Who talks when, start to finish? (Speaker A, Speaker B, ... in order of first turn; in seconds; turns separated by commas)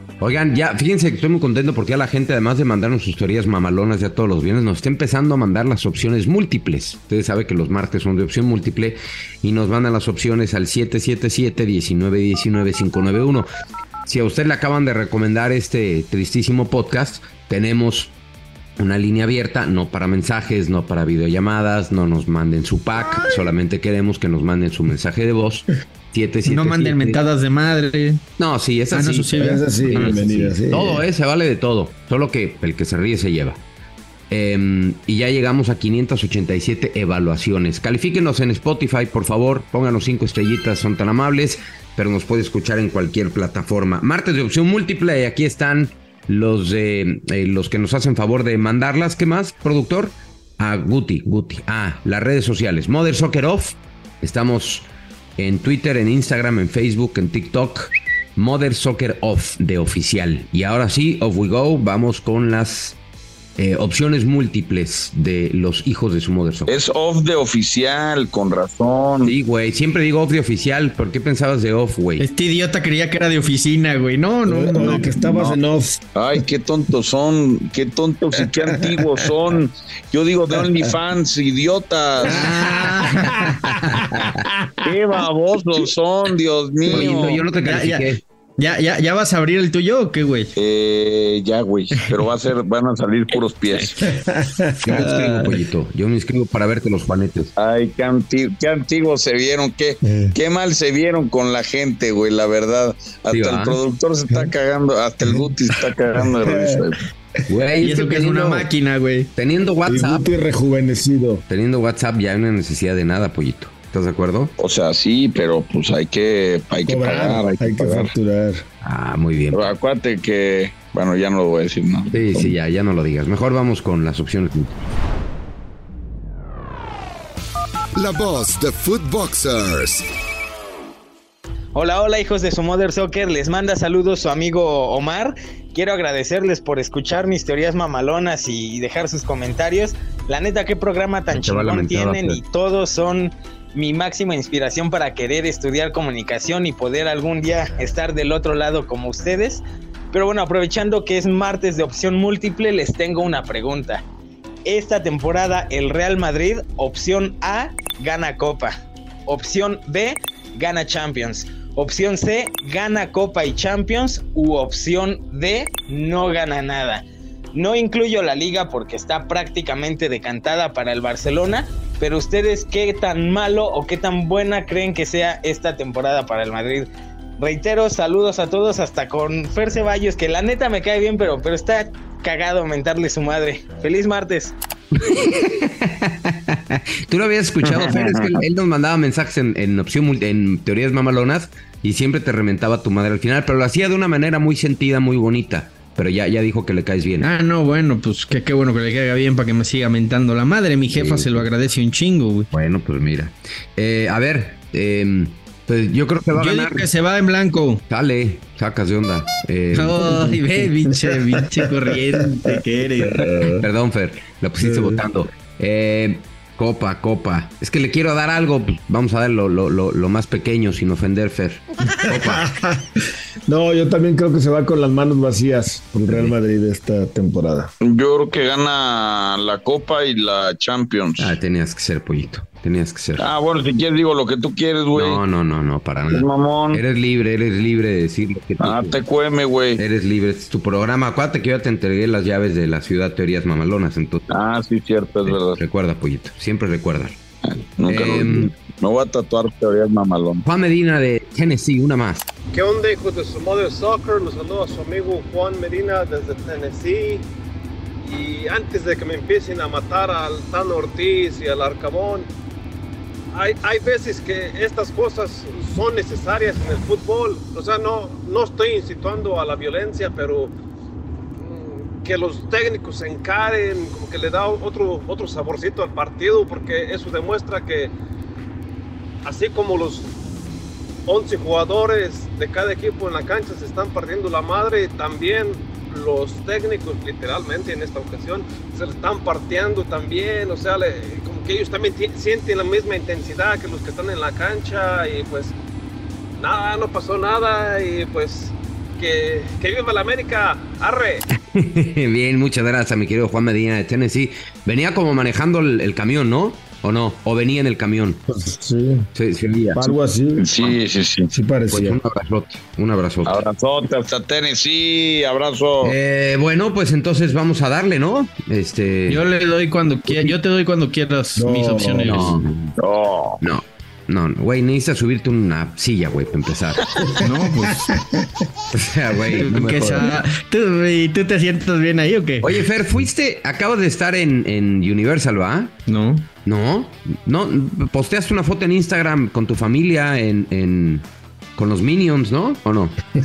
Speaker A: 0.2-13.5, Speaker A: 14.1-18.1, Speaker A: 18.8-27.2, Speaker B: 26.5-28.2, Speaker A: 28.4-33.6, Speaker B: 28.9-30.1, Speaker C: 29.4-31.1, Speaker A: 34.3-63.0, Speaker A: 63.6-66.7, Speaker D: 66.7-69.3, Speaker A: 69.2-72.2, Speaker B: 72.2-75.1, Speaker C: 74.5-76.0, Speaker D: 74.8-75.6, Speaker D: 76.2-82.5, Speaker C: 78.4-79.2, Speaker B: 82.2-83.6, Speaker C: 82.5-84.9, Speaker A: 83.8-84.3, Speaker D: 84.8-87.4, Speaker A: 86.9-88.2, Speaker B: 86.9-90.5, Speaker D: 90.6-94.0, Speaker C: 94.1-95.0, Speaker A: 94.8-97.5, Speaker B: 95.0-95.6, Speaker D: 97.6-107.0, Speaker C: 100.0-100.3, Speaker A: 103.3-103.8, Speaker C: 106.3-106.9, Speaker A: 107.5-108.7, Speaker B: 107.8-109.3, Speaker A: 109.4-110.3, Speaker C: 109.9-111.4, Speaker A: 111.5-114.5, Speaker D: 114.6-118.1, Speaker C: 116.9-118.7, Speaker A: 118.8-119.7, Speaker D: 119.5-122.5, Speaker A: 122.1-124.7, Speaker E: 128.0-130.1, Speaker F: 131.8-154.1, Speaker A: 141.3-142.4, Speaker F: 154.7-176.9, Speaker F: 177.4-184.6, Speaker A: 184.9-197.3, Speaker D: 187.6-188.4, Speaker B: 197.2-202.5, Speaker A: 200.9-201.5, Speaker A: 202.5-206.9, Speaker B: 206.3-207.8, Speaker A: 207.9-210.3, Speaker B: 209.7-213.3, Speaker C: 213.1-213.7, Speaker A: 213.6-222.5, Speaker C: 214.6-215.0, Speaker C: 222.1-227.7, Speaker D: 227.8-231.4, Speaker A: 231.2-233.3, Speaker D: 233.2-235.2, Speaker A: 234.9-238.9, Speaker D: 236.1-236.8, Speaker D: 238.6-239.8, Speaker A: 239.8-244.3, Speaker D: 244.3-245.6, Speaker A: 245.3-247.2, Speaker D: 247.4-250.4, Speaker A: 247.9-248.5, Speaker A: 250.4-252.3, Speaker G: 252.5-257.2, Speaker G: 258.0-262.3, Speaker G: 263.3-270.6, Speaker G: 271.4-277.9, Speaker G: 279.2-280.1, Speaker G: 281.1-295.5, Speaker G: 296.4-301.2, Speaker A: 301.4-308.2, Speaker C: 308.3-309.1, Speaker A: 309.1-309.9, Speaker C: 309.8-310.5, Speaker D: 310.4-311.3, Speaker C: 311.3-312.0, Speaker A: 311.7-313.4, Speaker D: 313.2-316.0, Speaker A: 315.8-319.2, Speaker B: 319.1-322.4, Speaker C: 321.4-322.4, Speaker A: 322.1-322.8, Speaker D: 322.8-323.4, Speaker A: 323.4-327.2, Speaker B: 327.2-327.9, Speaker C: 328.0-328.5, Speaker A: 328.7-330.1, Speaker B: 329.4-332.6, Speaker A: 332.4-335.7, Speaker B: 335.9-336.3, Speaker A: 336.4-342.9